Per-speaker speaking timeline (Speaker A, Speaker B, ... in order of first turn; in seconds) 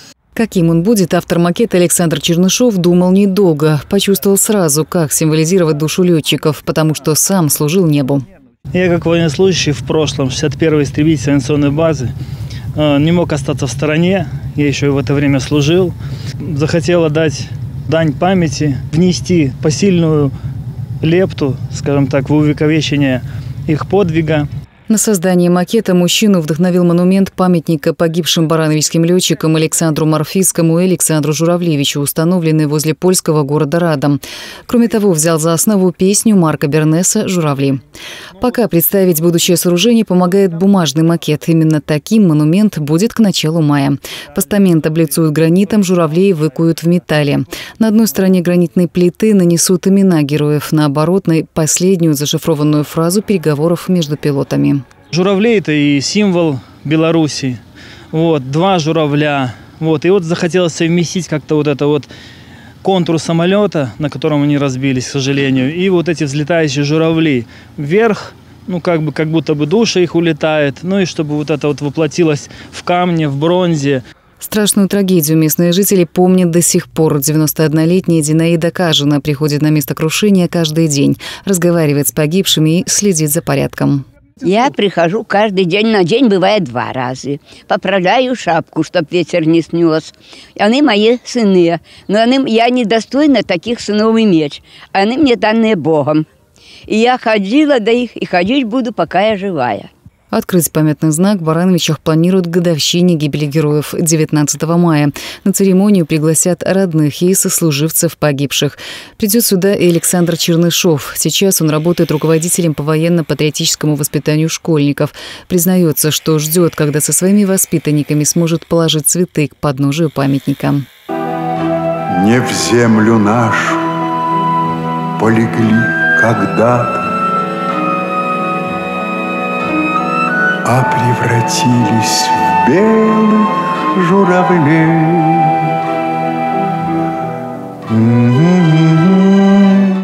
Speaker A: 0.3-8.2, 24.9-37.8, 38.4-54.8, 74.4-84.0, 100.3-120.8
Speaker B: 8.7-12.1, 12.8-20.3, 21.0-24.5, 55.1-57.6, 58.1-62.1, 62.8-74.0
Speaker C: 84.4-96.3, 96.9-99.9
Speaker D: 122.1-123.8, 125.2-127.1, 130.6-135.7, 137.9-139.4